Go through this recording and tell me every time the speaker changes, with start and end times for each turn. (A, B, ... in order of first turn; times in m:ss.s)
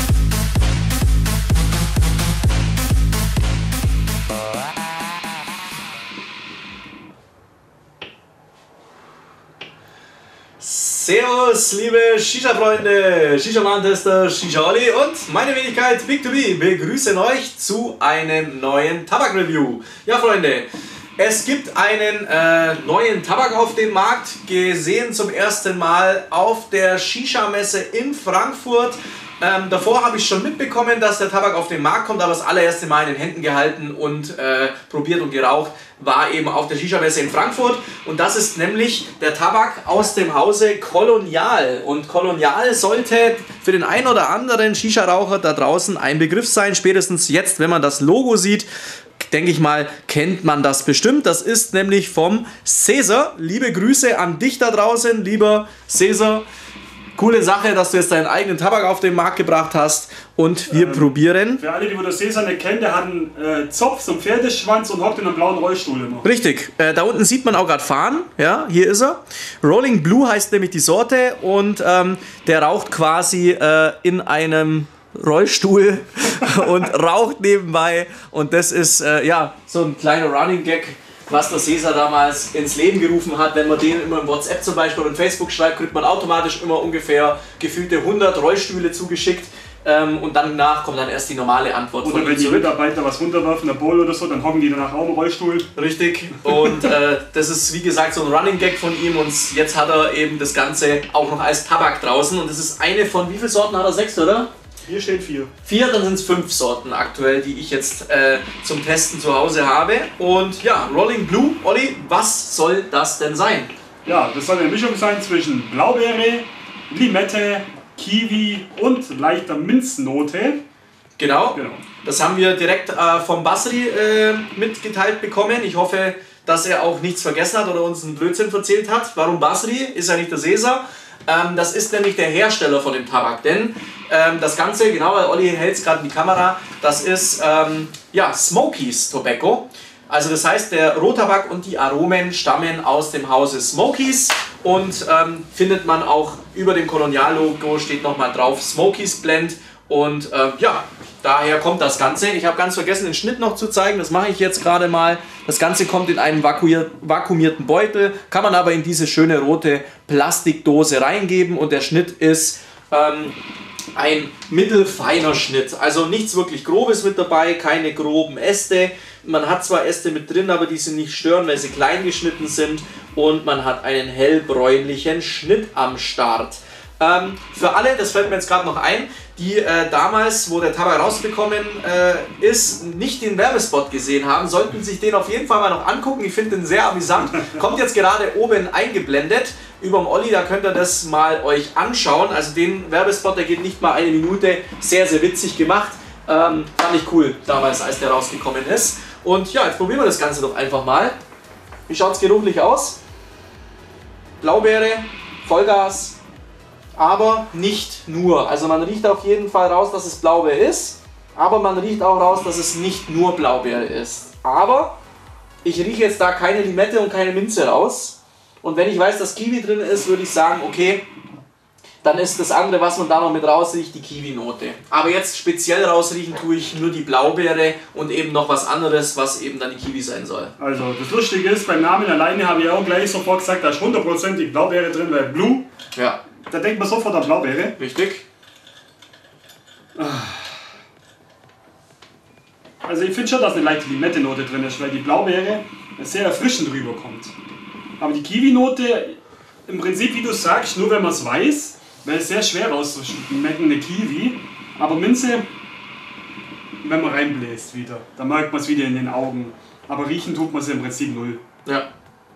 0:10.6-0:20.7 A
0:21.2-0:48.7 A
0:49.2-0:56.5 A
0:57.2-1:01.6 A
1:00.7-1:06.3 B
1:06.2-1:32.7 A
1:32.0-1:35.7 B
1:35.7-1:44.5 A
1:44.9-1:45.5 B
1:45.6-1:53.7 A
1:54.0-2:00.6 B
2:01.2-2:43.4 A
2:01.5-2:01.8 B
2:43.9-3:21.2 A
3:21.9-3:23.0 A
3:24.4-3:26.2 A
3:27.0-3:35.0 A
3:35.6-3:41.0 A
3:42.0-3:50.5 A
3:50.6-3:55.6 B
3:55.9-3:56.2 A
3:56.5-3:57.7 B
3:57.8-3:58.2 A
4:00.0-4:00.6 B
4:02.8-4:07.3 B
4:08.0-4:15.4 B
4:16.8-4:21.4 B